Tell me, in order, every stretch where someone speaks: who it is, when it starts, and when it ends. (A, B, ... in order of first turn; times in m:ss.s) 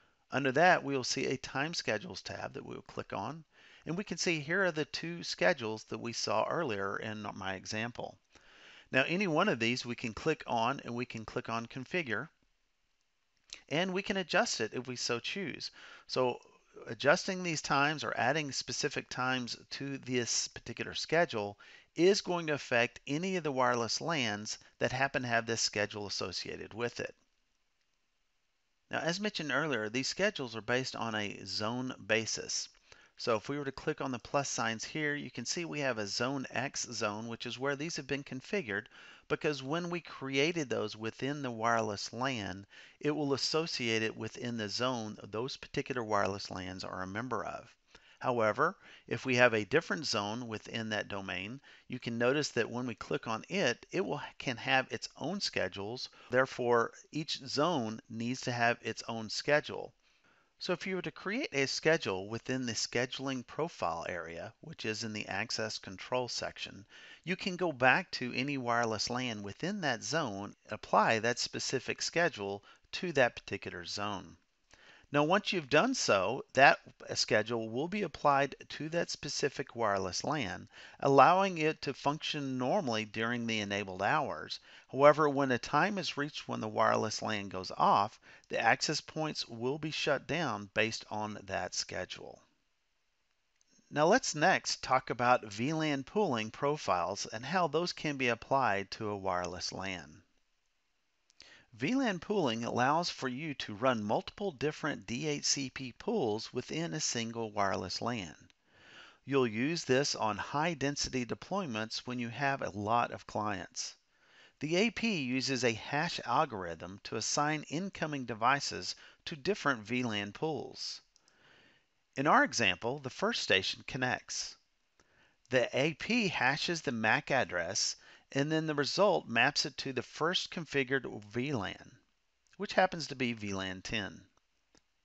0:00.3-0:08.2 A
0:08.9-0:12.3 A
0:13.7-0:27.2 A
0:28.9-0:59.9 A
1:00.6-1:14.4 A
1:15.1-1:32.4 A
1:33.9-1:40.2 A
1:41.7-1:48.5 A
1:49.2-1:54.0 A
1:54.6-2:01.0 A
2:02.2-2:04.6 A
2:05.5-2:12.0 A
2:12.6-2:14.3 A